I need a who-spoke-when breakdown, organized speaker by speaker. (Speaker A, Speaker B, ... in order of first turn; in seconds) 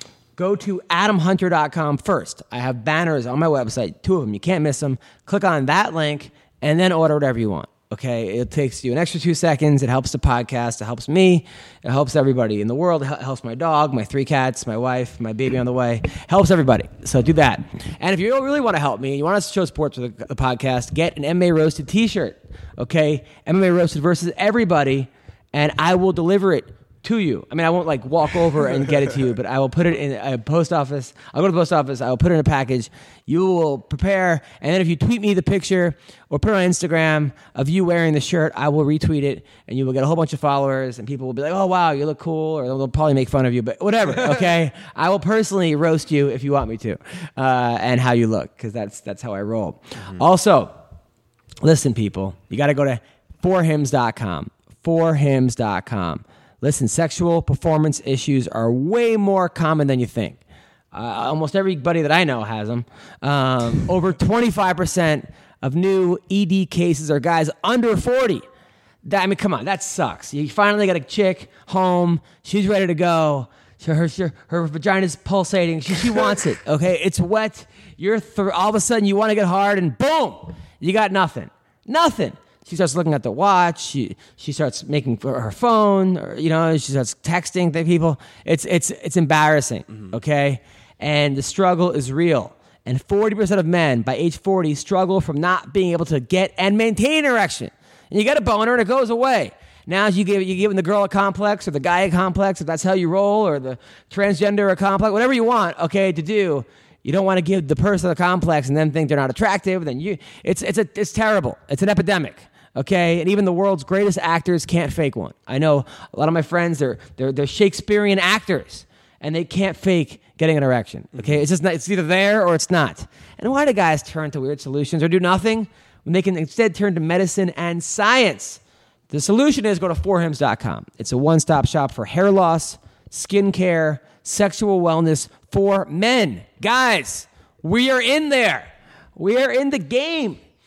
Speaker A: 0.4-50.7, 51.6-60.4, 60.9-68.4, 69.0-140.4